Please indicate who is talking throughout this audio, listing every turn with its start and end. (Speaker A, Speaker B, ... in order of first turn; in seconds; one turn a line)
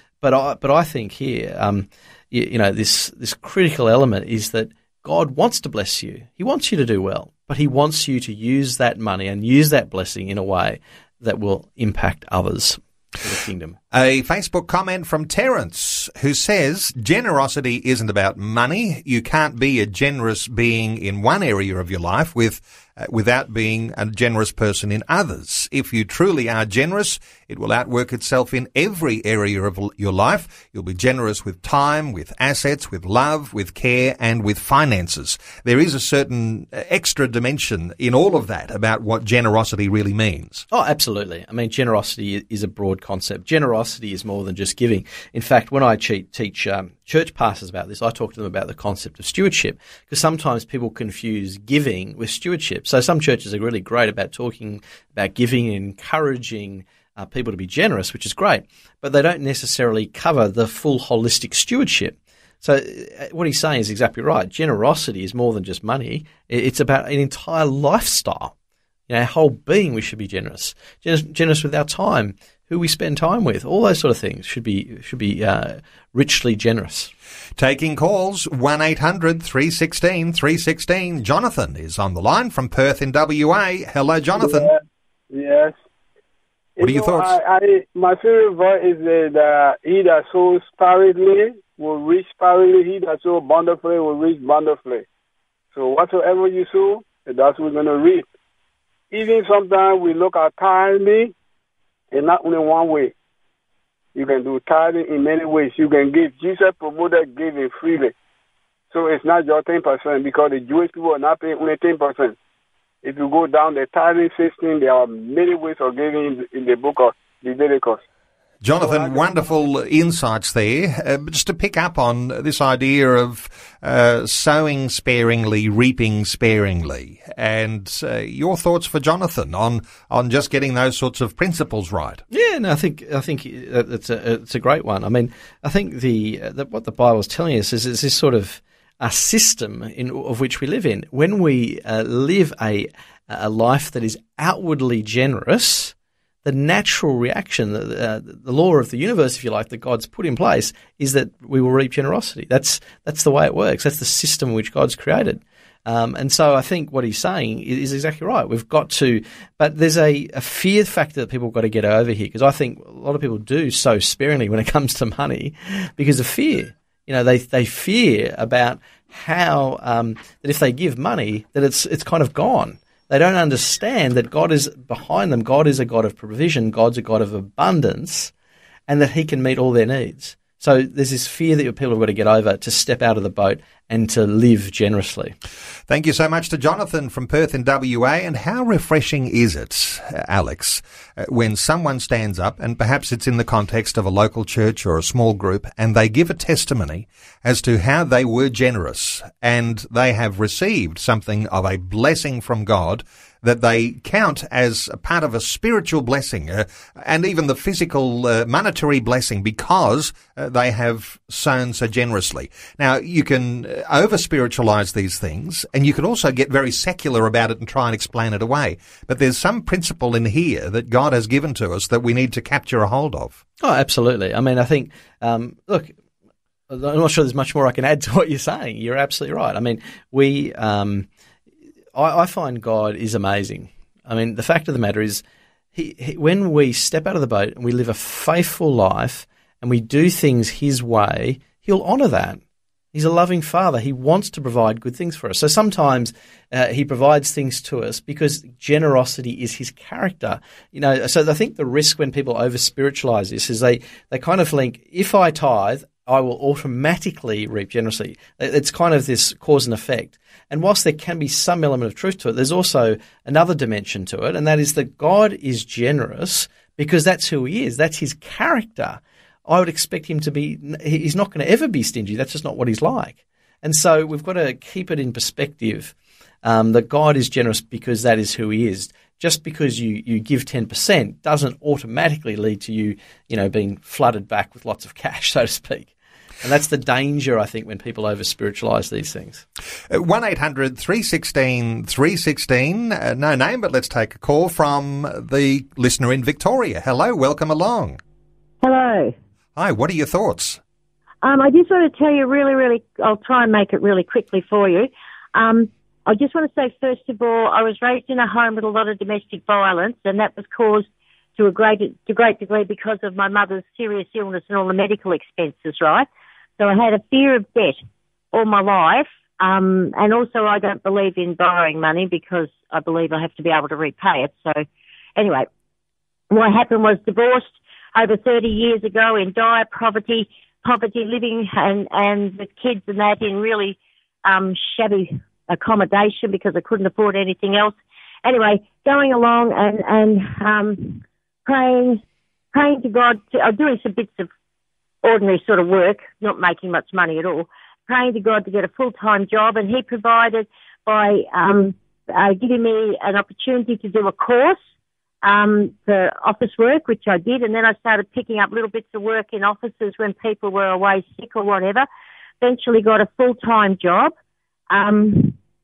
Speaker A: 0.2-13.8
Speaker B: 13.9-40.6
Speaker A: 40.7-68.5
Speaker A: 69.1-77.1
Speaker B: 77.6-84.7
Speaker C: 85.4-85.7
Speaker B: 86.8-87.4
Speaker C: 86.9-95.0
Speaker C: 95.7-98.2
Speaker C: 99.1-101.3
Speaker C: 102.1-103.1
Speaker C: 104.2-108.1
Speaker C: 109.0-112.3
Speaker C: 113.0-118.0
Speaker B: 118.6-132.2
Speaker A: 132.3-145.9
Speaker A: 146.4-178.3
Speaker A: 178.9-185.3
Speaker B: 185.9-223.4
Speaker A: 223.6-225.9
Speaker A: 226.7-231.1
Speaker A: 231.9-235.2
Speaker A: 235.7-242.4
Speaker A: 242.9-285.9
Speaker A: 286.4-289.4
Speaker B: 289.9-298.0
Speaker D: 298.6-299.1
Speaker B: 299.6-300.6
Speaker D: 301.2-316.1
Speaker D: 316.6-317.8
Speaker D: 318.3-324.6
Speaker D: 325.2-325.5
Speaker D: 326.3-342.0
Speaker D: 342.5-344.3
Speaker D: 345.0-354.6
Speaker D: 355.2-361.9
Speaker D: 362.4-364.1
Speaker D: 364.7-365.4